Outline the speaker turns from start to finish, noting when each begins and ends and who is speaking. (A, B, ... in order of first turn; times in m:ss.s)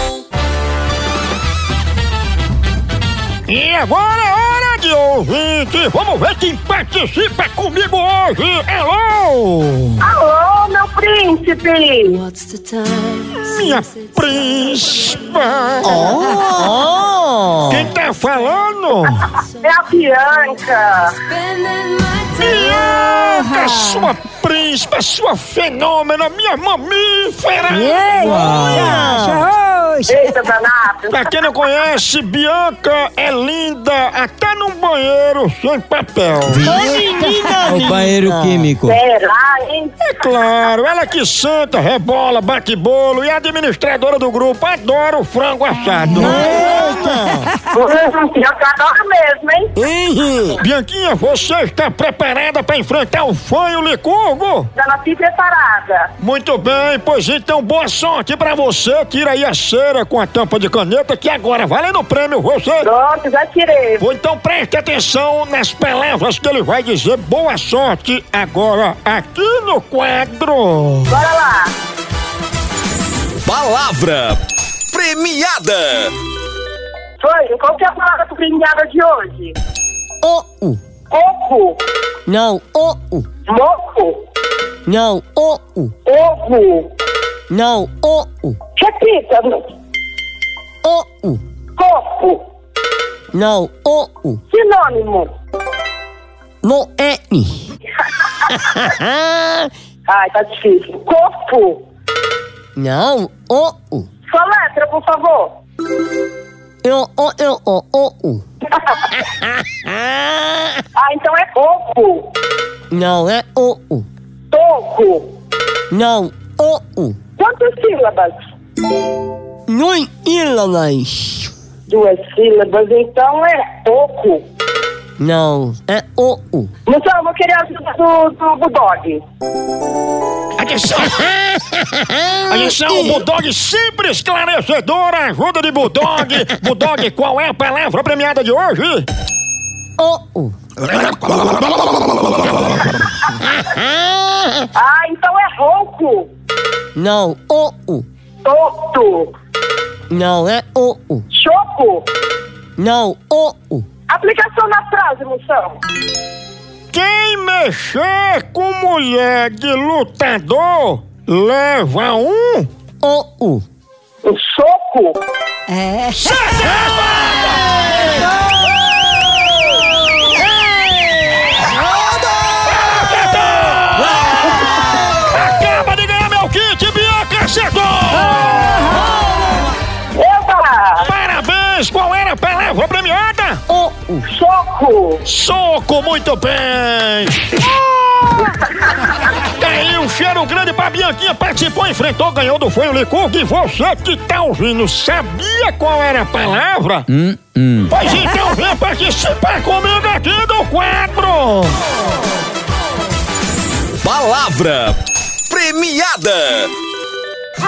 0:03.5-0:10.0 A
0:10.0-0:12.2 B
0:12.3-0:13.3 C
0:13.3-0:16.1 A
0:15.8-0:17.9 D
0:17.7-0:19.2 A
0:19.4-0:21.2 B
0:21.5-0:22.3 C
0:22.3-0:28.8 A
0:23.2-0:24.0 C
0:27.7-0:30.2 C
0:28.0-0:29.5 D
0:30.1-0:31.3 B
0:31.1-0:36.8 A
0:36.5-0:39.0 C
0:36.6-0:38.7 D
0:38.8-0:40.0 B
0:40.0-0:47.1 A
0:46.1-0:47.4 D
0:46.1-0:46.8 C
0:47.6-0:49.7 B
0:50.0-0:50.3 D
0:50.3-0:54.7 A
0:54.8-0:56.1 B
0:56.2-1:02.9 A
1:02.8-1:04.0 B
1:04.0-1:11.2 A
1:11.1-1:11.7 B
1:13.4-1:14.4 E
1:14.9-1:16.1 E
1:17.2-1:19.6 B
1:20.2-1:20.8 D
1:21.1-1:21.8 B
1:22.3-1:23.3 D
1:23.5-1:24.2 B
1:24.9-1:25.9 D
1:26.0-1:26.9 B
1:27.5-1:28.6 D
1:28.8-1:29.7 B
1:30.8-1:31.4 D
1:31.8-1:32.4 B
1:33.3-1:34.4 D
1:34.5-1:35.3 B
1:36.6-1:37.7 D
1:38.5-1:39.7 D
1:40.1-1:41.8 B
1:42.8-1:44.1 D
1:44.3-1:45.5 B
1:46.8-1:48.4 D
1:49.3-1:50.8 D
1:51.0-1:52.3 B
1:52.9-1:54.1 D
1:54.5-1:55.3 B
1:55.9-1:57.2 D
1:57.4-1:58.4 B
1:59.7-2:01.5 D
2:01.9-2:04.4 B
2:05.2-2:06.7 D
2:06.9-2:09.2 B
2:10.6-2:19.1 A
2:12.4-2:13.2 D
2:20.0-2:20.5 D
2:23.6-2:24.7 D
2:24.7-2:26.3 B
2:27.0-2:28.1 D
2:28.4-2:29.3 B
2:30.1-2:31.3 D
2:31.3-2:32.1 B
2:32.8-2:33.9 D
2:34.1-2:35.8 B
2:36.9-2:42.7 A
2:43.0-2:43.6 D
2:44.2-2:45.2 B
2:45.8-2:46.1 C
2:46.1-2:48.1 A
2:52.6-2:59.0 A
3:00.2-3:01.1 B
3:01.0-3:03.6 A
3:03.7-3:04.3 D
3:04.3-3:05.2 B
3:05.2-3:07.7 A
3:09.2-3:17.1 A
3:17.1-3:17.9 C
3:17.9-3:21.8 A
3:24.0-3:26.7 E